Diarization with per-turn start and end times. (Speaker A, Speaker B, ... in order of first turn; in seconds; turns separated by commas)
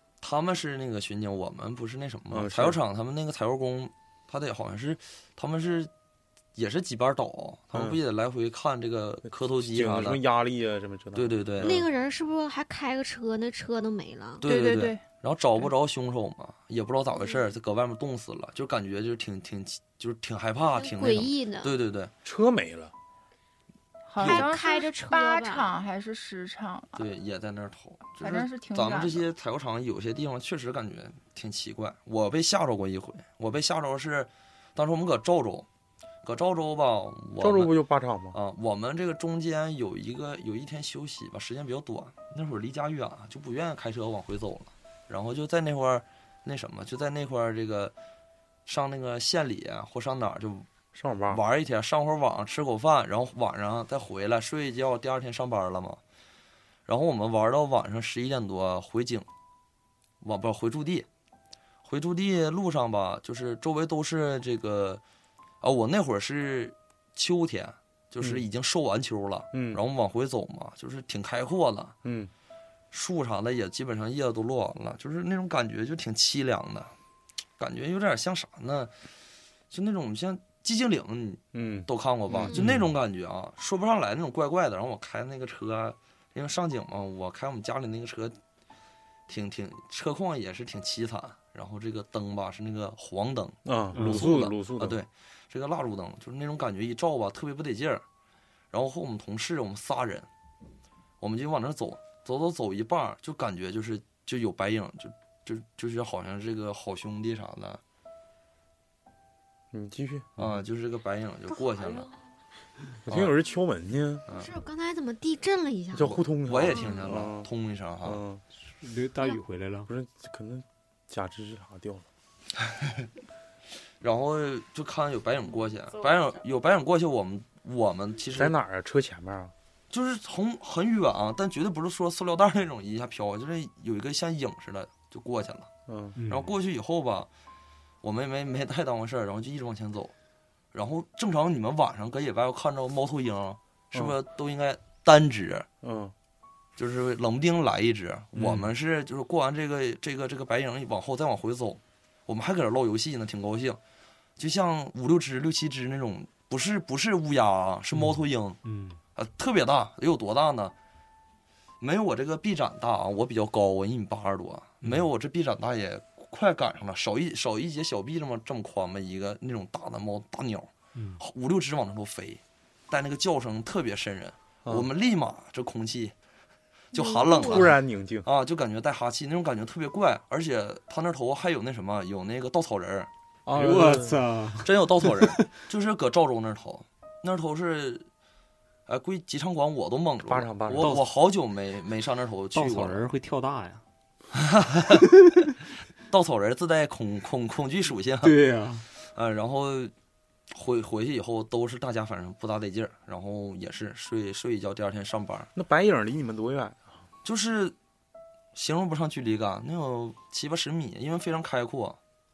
Speaker A: 0.2-5.9, Speaker B: 2.3-2.8, Speaker A: 6.5-10.2, Speaker B: 7.7-8.0, Speaker B: 9.3-11.9, Speaker A: 11.1-11.9, Speaker C: 11.6-14.4, Speaker A: 14.4-22.1, Speaker D: 14.4-15.0, Speaker C: 20.8-21.8, Speaker B: 22.2-22.9, Speaker D: 24.1-26.9, Speaker C: 24.2-25.8, Speaker A: 24.2-24.5, Speaker A: 26.9-35.7, Speaker D: 28.2-29.2, Speaker A: 36.2-37.7, Speaker B: 37.4-38.4, Speaker A: 38.3-48.0, Speaker A: 48.7-50.7, Speaker B: 50.9-51.4, Speaker A: 51.3-56.0, Speaker A: 56.9-59.3, Speaker A: 60.2-61.1, Speaker A: 61.8-65.0, Speaker A: 65.6-72.0, Speaker B: 68.2-68.5, Speaker B: 69.5-69.8, Speaker B: 72.0-72.3, Speaker A: 72.9-76.9, Speaker A: 77.6-78.9, Speaker A: 79.7-88.4, Speaker B: 81.5-82.5, Speaker E: 82.5-82.9, Speaker A: 89.3-98.0, Speaker B: 93.6-95.0, Speaker E: 94.0-94.3, Speaker A: 98.7-100.3, Speaker A: 101.2-107.8, Speaker B: 109.7-110.5, Speaker A: 110.4-112.1, Speaker C: 111.6-112.1, Speaker B: 113.0-114.2, Speaker A: 113.1-113.3, Speaker C: 114.3-117.1, Speaker B: 115.9-117.5, Speaker A: 116.4-118.2, Speaker B: 118.0-118.4, Speaker E: 118.6-119.9, Speaker B: 119.9-122.1, Speaker A: 122.6-123.1, Speaker A: 124.0-128.6, Speaker B: 128.3-129.5, Speaker A: 129.9-135.7, Speaker B: 135.9-136.2, Speaker E: 136.2-136.5, Speaker A: 136.3-137.3, Speaker A: 138.0-140.1, Speaker A: 140.7-145.7, Speaker B: 145.8-146.1, Speaker A: 146.8-153.8, Speaker E: 148.4-148.6, Speaker A: 154.4-158.6, Speaker E: 157.9-159.0, Speaker A: 159.2-160.8, Speaker A: 161.8-176.1, Speaker E: 170.9-171.2, Speaker A: 176.9-183.1, Speaker C: 176.9-177.7, Speaker B: 177.4-178.3, Speaker B: 183.5-184.2, Speaker E: 183.5-185.5, Speaker A: 184.6-188.1, Speaker A: 188.9-193.0, Speaker B: 190.3-191.0, Speaker E: 190.8-191.1, Speaker E: 192.5-193.8, Speaker A: 194.3-195.1, Speaker A: 196.1-198.4, Speaker E: 198.2-198.9, Speaker A: 199.0-199.9, Speaker A: 200.5-205.5, Speaker B: 205.6-206.9, Speaker A: 207.2-207.8, Speaker A: 208.5-212.0